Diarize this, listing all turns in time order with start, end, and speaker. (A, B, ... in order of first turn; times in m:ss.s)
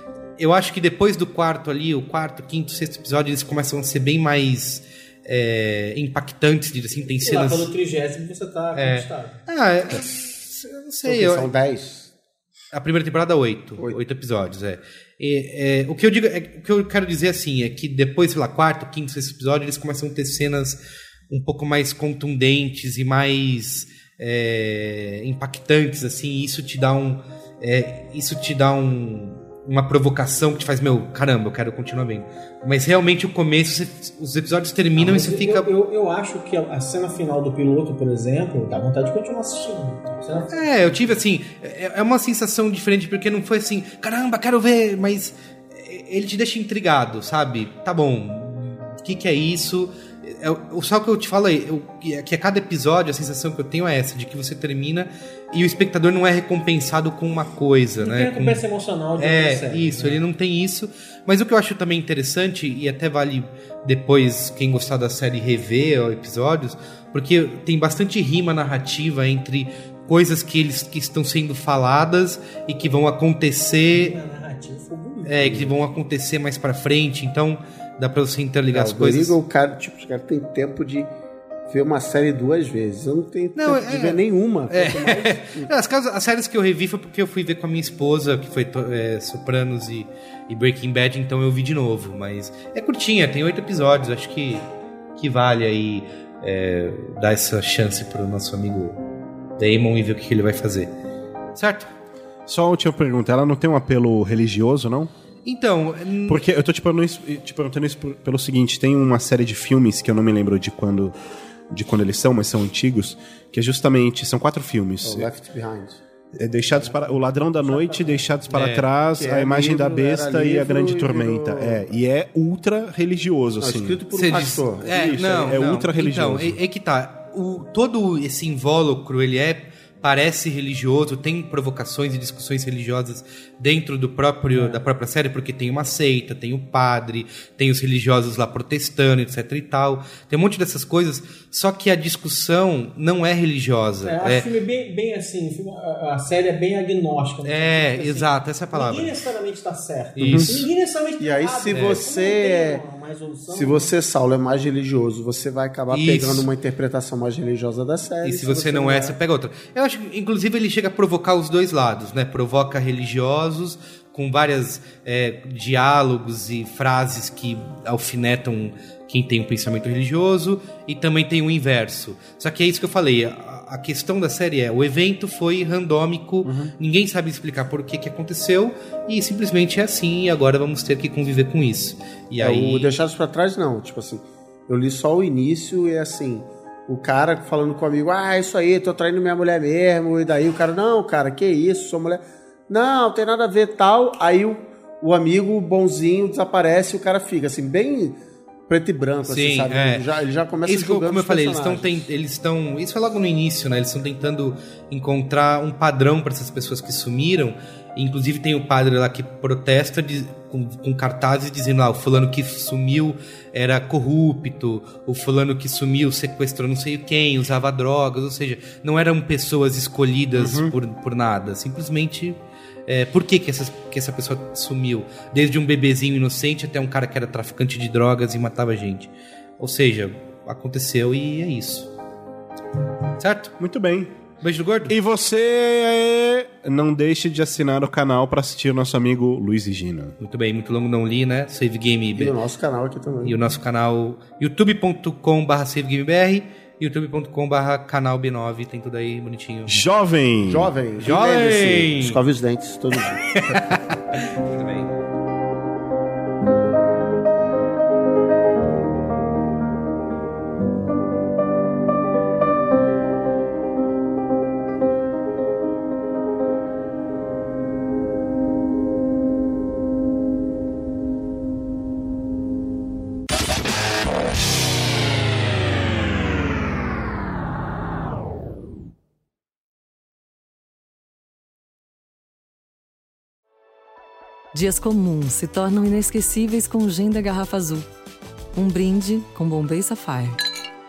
0:00.4-0:07.7 A
0:07.2-0:09.4 B
0:08.7-0:11.5 A
0:11.0-0:12.1 C
0:12.7-0:20.8 A
0:21.3-0:35.7 A
0:35.0-0:41.2 B
0:40.5-0:58.6 A
0:58.0-1:00.2 B
0:59.2-1:14.2 A
1:13.9-1:15.7 B
1:15.2-1:19.4 A
1:18.7-1:21.1 C
1:21.7-1:25.7 C
1:23.6-1:34.6 A
1:35.2-1:39.0 A
1:39.6-1:40.9 A
1:41.6-1:41.9 A
1:42.5-1:45.1 D
1:45.4-1:46.4 A
1:46.3-1:51.1 D
1:51.7-1:55.3 D
1:55.0-1:56.0 C
1:56.4-2:04.0 D
1:56.7-1:58.3 B
1:58.5-1:58.9 A
1:59.2-2:01.9 C
2:03.6-2:04.9 C
2:04.1-2:24.5 A
2:04.8-2:06.6 D
2:14.5-2:14.8 B
2:24.0-2:33.9 B
2:27.4-2:29.2 A
2:30.2-2:30.6 A
2:30.2-2:30.5 D
2:31.2-2:32.8 C
2:31.7-2:32.0 A
2:33.5-2:39.2 C
2:35.9-2:36.5 A
2:38.2-3:02.9 A
2:56.4-2:56.7 D
3:02.4-3:18.2 C
3:18.7-3:22.0 C
3:19.3-3:20.1 A
3:20.6-3:51.9 A
3:40.4-3:40.7 D
3:53.2-3:53.5 A
3:53.6-3:54.1 D
3:54.4-3:54.9 A
3:54.9-4:00.2 D
4:00.2-4:02.4 A
4:02.2-4:03.4 C
4:03.2-4:09.8 A
4:09.7-4:10.7 D
4:10.4-4:13.2 C
4:11.0-4:12.2 A
4:13.0-4:14.9 A
4:44.5-4:47.9 E
4:48.6-4:50.4 E